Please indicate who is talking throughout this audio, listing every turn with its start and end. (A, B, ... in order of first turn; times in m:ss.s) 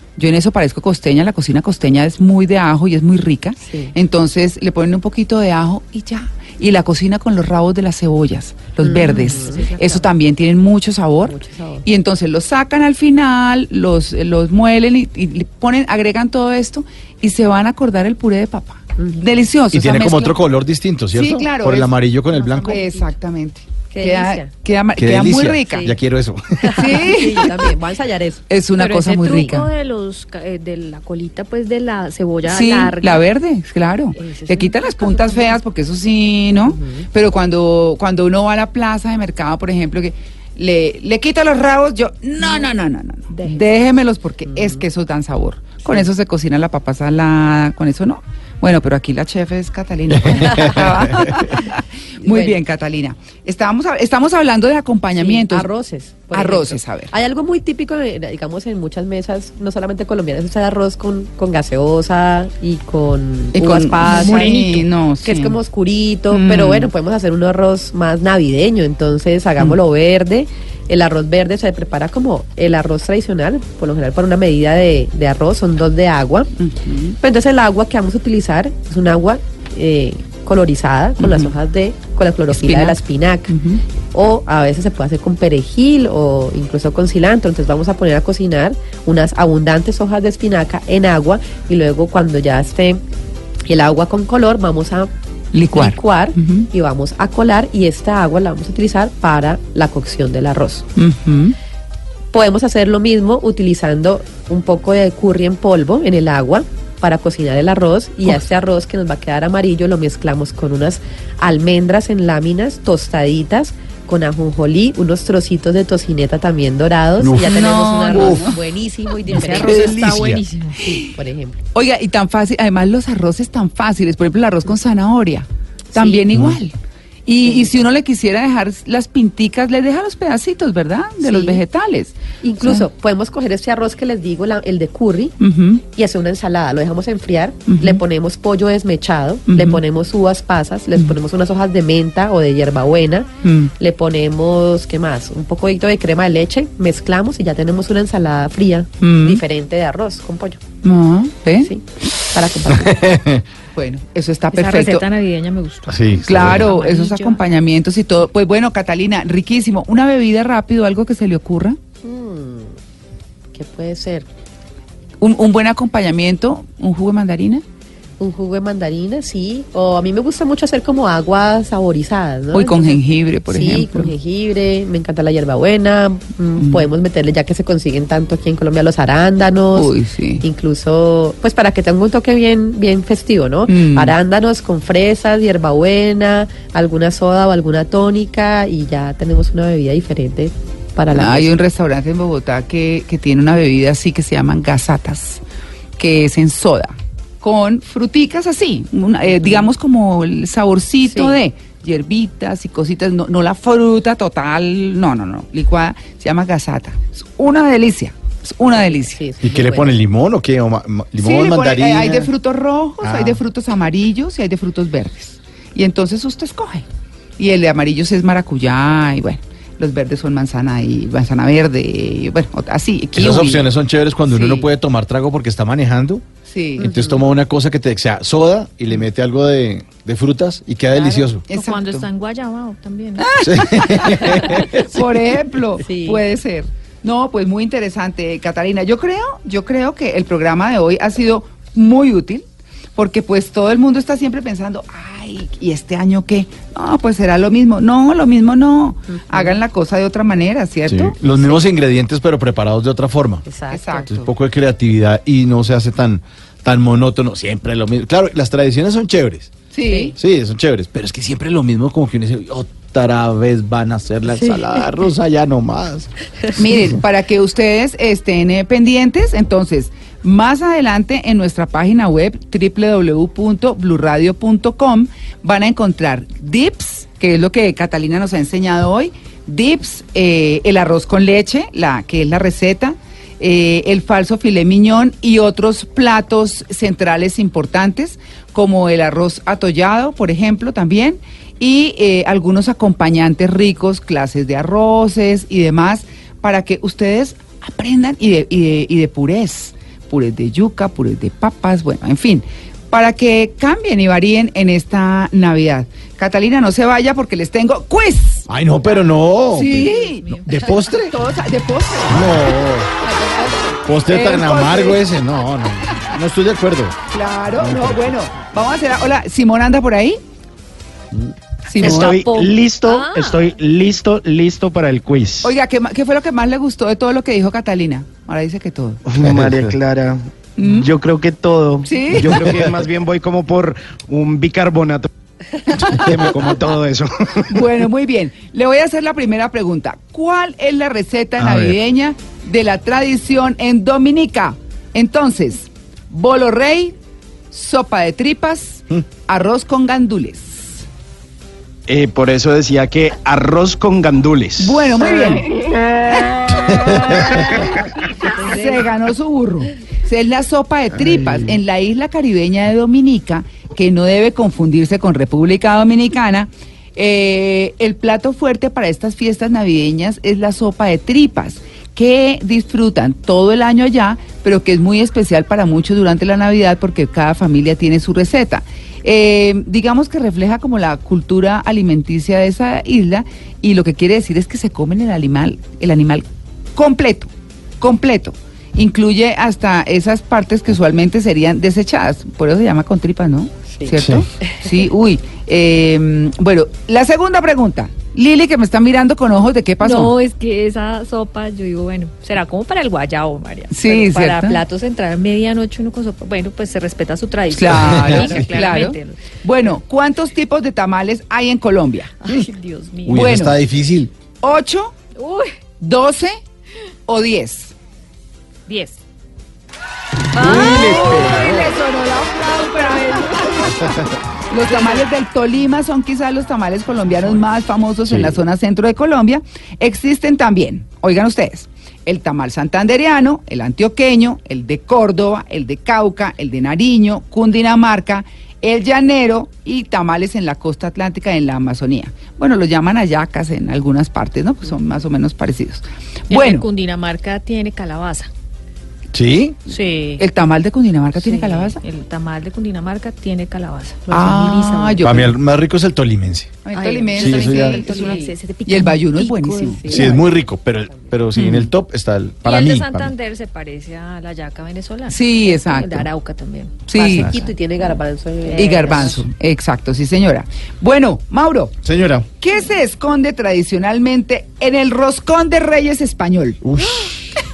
0:00.2-0:20.4 A
0:03.6-0:03.9 B
0:08.8-0:10.1 B
0:09.0-0:09.7 C
0:11.2-0:11.8 B
0:19.0-0:19.4 B
0:19.7-0:22.8 D
0:21.1-0:22.0 A
0:22.3-0:23.0 C
0:22.5-0:25.9 A
0:23.9-0:24.5 B
0:25.0-0:27.0 D
0:26.6-0:28.4 B
0:26.8-0:27.7 A
0:28.5-0:29.7 A
0:28.7-0:33.2 C
0:32.4-0:55.7 A
0:34.2-0:35.6 C
0:36.7-0:37.0 B
0:44.5-0:44.8 B
0:50.2-0:51.5 D
0:50.5-0:50.8 B
0:52.2-0:52.6 B
0:55.2-1:04.6 B
0:56.3-0:57.1 A
1:03.5-1:05.6 A
1:04.0-1:04.9 C
1:05.2-1:16.5 B
1:06.3-1:06.9 A
1:16.6-1:17.2 A
1:17.2-1:23.6 B
1:21.2-1:21.5 A
1:22.5-1:23.8 A
1:24.1-1:33.0 B
1:33.6-1:35.1 B
1:35.5-1:36.7 A
1:35.7-1:40.9 B
1:41.0-1:41.5 A
1:42.3-2:01.6 B
1:57.2-1:58.6 D
1:57.4-1:58.6 A
1:59.3-2:00.8 C
1:59.3-2:00.4 A
1:59.9-2:00.4 D
2:01.7-2:06.7 A
2:05.9-2:06.2 B
2:06.3-2:06.6 D
2:07.2-2:12.8 A
2:07.4-2:07.8 B
2:11.2-2:11.6 B
2:12.4-2:15.4 B
2:15.4-2:15.8 A
2:15.9-2:30.6 B
2:17.7-2:18.0 A
2:19.5-2:19.8 A
2:23.4-2:23.7 A
2:29.0-2:29.4 A
2:30.8-2:31.7 A
2:31.6-2:33.2 B
2:32.7-2:33.4 D
2:33.7-2:35.1 A
2:34.5-2:37.4 C
2:35.9-2:36.7 D
2:36.2-2:41.8 A
2:42.0-2:42.7 B
2:43.5-2:44.2 B
2:45.2-2:47.6 A
2:48.2-3:11.5 B
2:52.5-2:54.1 A
2:56.6-2:56.9 A
2:59.7-3:00.4 A
3:03.7-3:04.1 A
3:11.1-3:15.4 A
3:16.0-3:29.2 A
3:21.0-3:21.4 B
3:28.8-3:29.9 B
3:29.4-3:32.3 D
3:31.2-3:36.8 A
3:32.0-3:32.3 B
3:33.0-3:33.4 D
3:37.4-3:43.7 A
3:43.1-3:46.2 D
3:44.3-3:44.7 A
3:46.4-3:46.9 A
3:46.8-3:51.4 D
3:46.8-3:47.2 B
3:51.5-3:52.1 A
3:51.5-3:53.4 C
3:53.2-4:02.4 A
3:53.4-3:55.0 D
3:54.2-3:54.8 C
3:55.8-3:56.2 B
4:03.0-4:11.2 A
4:09.1-4:09.6 B
4:10.9-4:13.4 D
4:13.4-4:14.1 B
4:13.7-4:14.3 A
4:14.1-4:19.6 D
4:19.7-4:20.2 A
4:19.8-4:20.1 B
4:20.2-4:26.1 D
4:26.6-5:08.5 A
4:26.7-4:27.0 D
5:08.5-5:11.1 D
5:09.5-5:10.9 C
5:09.5-5:10.4 A
5:11.0-5:12.6 A
5:12.1-5:12.9 D
5:13.0-5:13.8 B
5:13.8-5:17.0 D
5:14.1-5:15.0 A
5:17.1-5:20.2 A
5:17.6-5:18.3 D
5:21.7-5:22.3 A
5:21.8-5:25.5 E
5:21.8-5:23.6 C
5:25.4-5:29.0 A
5:29.0-5:35.1 E
5:29.2-5:29.7 D
5:30.6-5:30.9 A
5:31.8-5:32.6 A
5:35.7-5:37.7 E
5:35.9-5:36.2 D
5:37.5-5:47.0 A
5:41.4-5:41.8 D
5:47.5-5:50.8 A
5:51.9-5:55.1 E
5:54.6-5:57.7 A
5:57.1-5:57.6 D
5:58.2-6:40.2 A
5:58.4-5:58.8 C
6:33.7-6:34.7 B
6:33.9-6:34.3 D
6:39.8-6:49.2 C
6:43.7-6:44.6 A
6:47.5-6:52.1 A
6:47.8-6:48.4 D
6:52.2-6:53.3 C
6:53.0-6:54.1 D
6:53.1-6:53.6 A
6:54.4-6:54.9 A
6:55.2-6:55.5 C
6:55.8-6:56.4 A
6:57.1-6:57.7 A
6:58.7-6:59.0 C
7:00.3-7:01.7 C
7:00.3-7:01.7 D
7:00.4-7:03.8 A
7:02.5-7:03.9 C
7:03.6-7:04.2 D
7:04.5-7:26.6 A
7:04.6-7:05.1 C
7:08.1-7:08.4 D
7:26.3-7:28.3 C
7:29.1-7:29.6 D
7:29.7-7:30.2 C
7:30.2-7:31.8 A
7:31.2-7:35.2 C
7:34.1-7:35.3 A
7:35.0-7:36.6 D
7:36.6-7:40.1 A
7:36.8-7:37.1 B
7:36.8-7:40.2 C
7:37.1-7:38.1 D
7:39.9-7:43.1 D
7:41.4-7:41.7 A
7:42.4-7:47.4 C
7:45.1-7:46.1 A
7:46.9-7:47.3 A
7:47.0-7:49.2 B
7:47.0-7:47.3 D
7:48.5-7:49.2 C
7:48.5-7:51.7 A
7:51.8-7:52.3 D
7:52.4-7:56.6 A
7:56.6-7:57.3 D